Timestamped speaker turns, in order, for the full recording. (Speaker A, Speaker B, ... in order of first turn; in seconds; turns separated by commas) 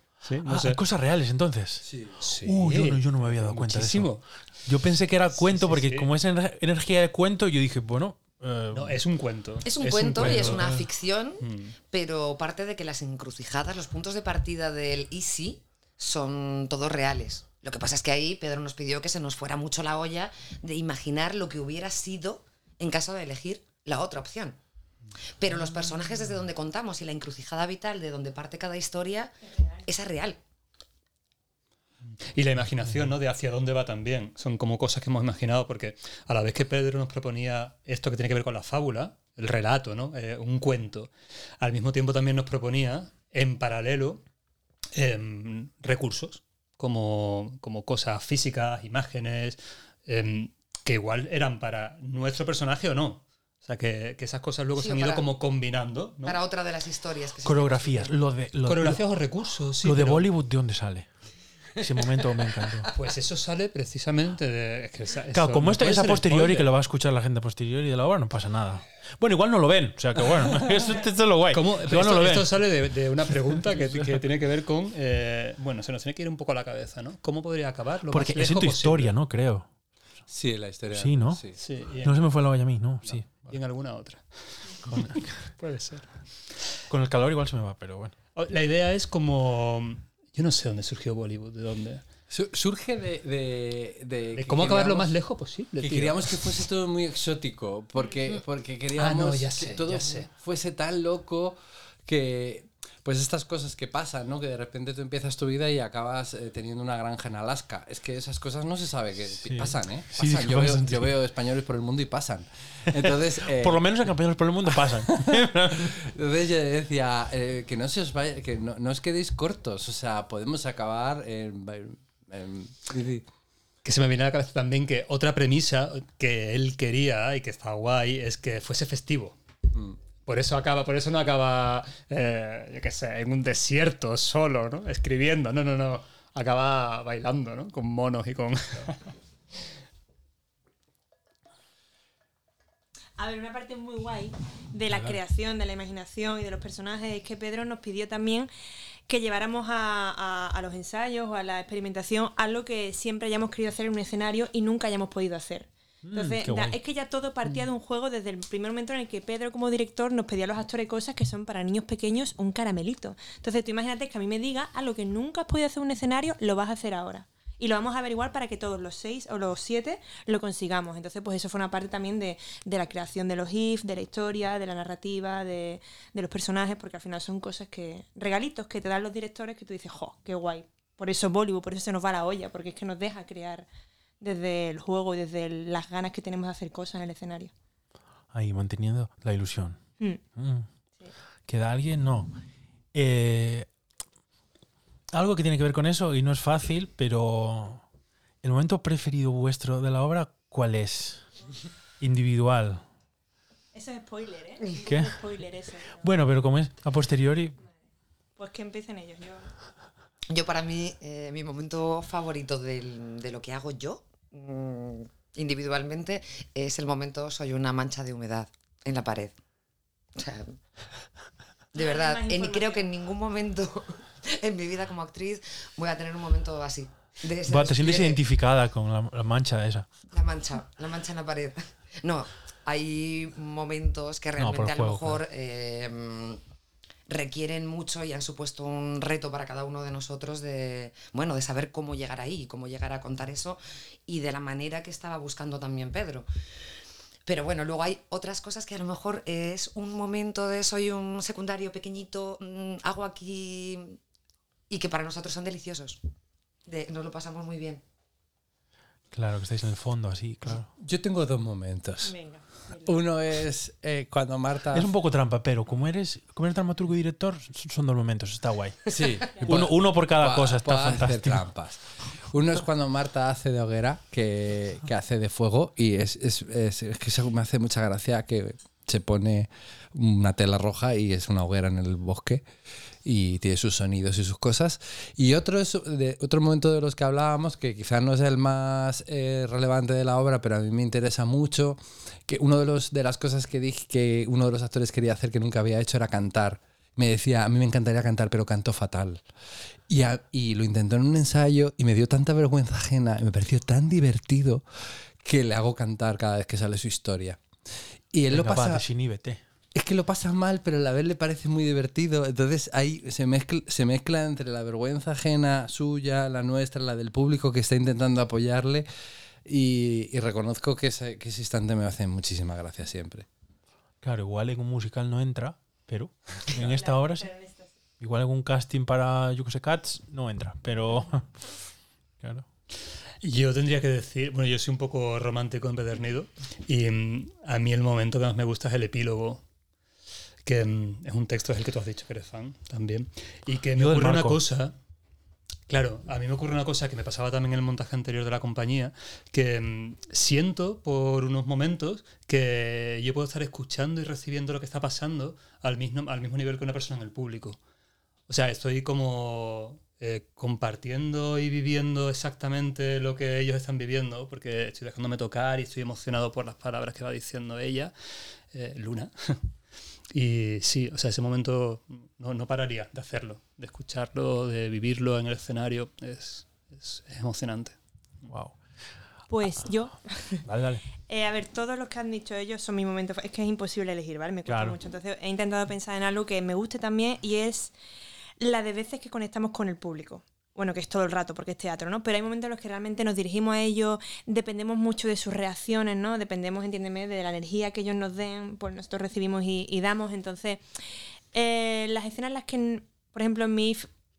Speaker A: 0.2-0.8, Speaker B: 0.4-1.9, Speaker C: 1.9-2.1, Speaker A: 2.2-4.2, Speaker B: 2.4-9.0, Speaker A: 5.3-6.1, Speaker A: 8.7-10.9, Speaker D: 9.6-24.6, Speaker B: 10.2-10.6, Speaker A: 11.4-11.7, Speaker D: 25.4-30.4, Speaker A: 32.3-44.2, Speaker A: 44.9-56.4, Speaker D: 54.8-55.2, Speaker D: 56.2-58.1, Speaker B: 57.4-59.0, Speaker A: 58.6-60.3, Speaker B: 59.8-61.1, Speaker B: 61.8-62.9, Speaker A: 63.0-66.7, Speaker B: 65.3-72.6, Speaker A: 71.5-79.1, Speaker B: 73.7-74.2, Speaker B: 78.1-79.7, Speaker C: 80.3-81.5, Speaker B: 80.9-81.4, Speaker A: 81.6-82.2, Speaker B: 82.0-83.5, Speaker A: 83.3-86.1, Speaker B: 84.9-85.4, Speaker B: 86.9-88.1, Speaker A: 88.3-92.0, Speaker C: 92.3-95.1, Speaker A: 94.3-96.6, Speaker C: 95.8-113.8, Speaker A: 98.9-100.3, Speaker B: 109.3-111.1, Speaker B: 113.0-115.9, Speaker C: 114.7-123.3, Speaker A: 123.8-129.4, Speaker C: 129.7-130.0, Speaker A: 130.2-139.0, Speaker E: 143.2-148.5, Speaker B: 144.9-145.2, Speaker E: 149.1-183.7, Speaker B: 156.0-156.8, Speaker E: 184.2-187.5, Speaker B: 188.3-189.8, Speaker B: 190.3-190.7, Speaker B: 191.5-192.3, Speaker B: 192.9-193.7, Speaker B: 195.1-197.8, Speaker B: 198.4-201.2, Speaker B: 202.0-202.8, Speaker E: 203.7-206.0, Speaker B: 204.8-205.2, Speaker B: 206.0-207.6, Speaker E: 208.4-209.5, Speaker D: 210.3-219.4, Speaker D: 220.2-220.6, Speaker D: 221.7-228.2, Speaker E: 221.7-222.9, Speaker B: 227.4-229.8, Speaker D: 230.1-236.4, Speaker B: 234.4-235.2, Speaker D: 237.1-246.3, Speaker D: 247.2-254.0, Speaker D: 254.7-256.0, Speaker D: 256.6-257.8, Speaker B: 259.1-260.7, Speaker C: 260.8-262.2, Speaker E: 262.0-262.9, Speaker C: 262.7-264.9, Speaker B: 264.7-271.4, Speaker C: 268.9-282.4, Speaker C: 283.0-299.2, Speaker C: 299.9-304.6, Speaker C: 305.2-307.4, Speaker C: 308.1-308.8, Speaker B: 308.3-309.4, Speaker C: 309.7-318.9, Speaker C: 319.4-323.2, Speaker B: 324.0-327.3, Speaker E: 326.6-327.7, Speaker B: 328.0-331.5, Speaker B: 332.2-332.4, Speaker A: 333.2-339.4, Speaker A: 340.4-344.7, Speaker B: 343.8-344.4, Speaker A: 345.7-357.6, Speaker A: 358.3-369.5, Speaker A: 370.1-377.8, Speaker B: 378.3-378.6, Speaker E: 379.3-380.4, Speaker B: 380.4-380.8, Speaker E: 381.1-387.7, Speaker B: 384.5-384.8, Speaker E: 388.4-400.6, Speaker E: 401.3-403.9